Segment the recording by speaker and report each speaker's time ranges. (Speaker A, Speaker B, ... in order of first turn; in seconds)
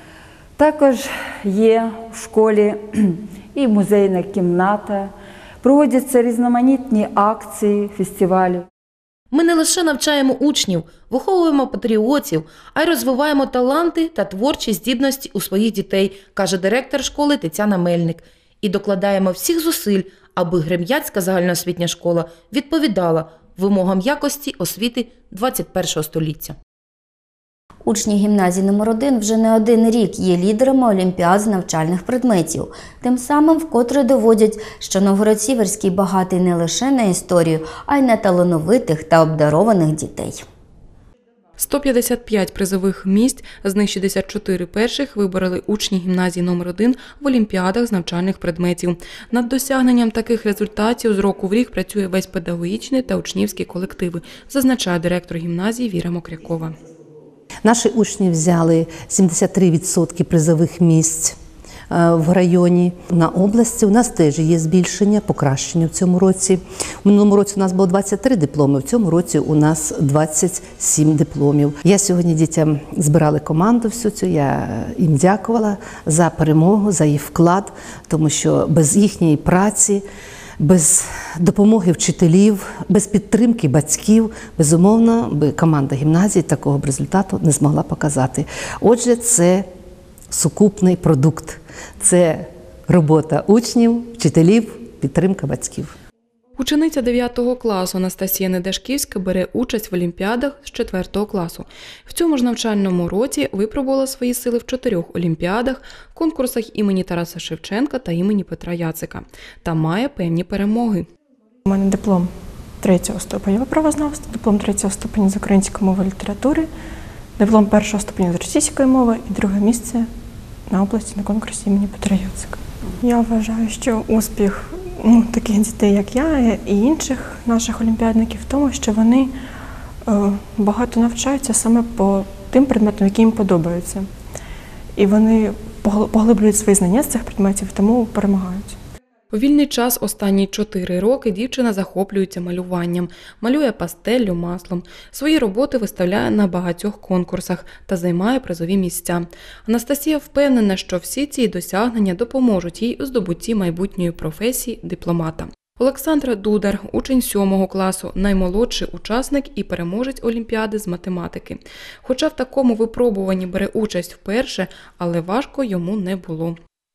Speaker A: 0.6-8.7
Speaker B: 9.3-26.6
Speaker C: 27.8-40.4
Speaker D: 41.6-56.7, 96.6-111.1, 139.3-166.6
Speaker E: 57.6-61.4, 61.9-80.0, 80.6-89.7, 90.3-95.9
Speaker F: 111.7-116.7, 117.4-120.1, 120.7-129.3, 130.1-134.1, 134.9-138.8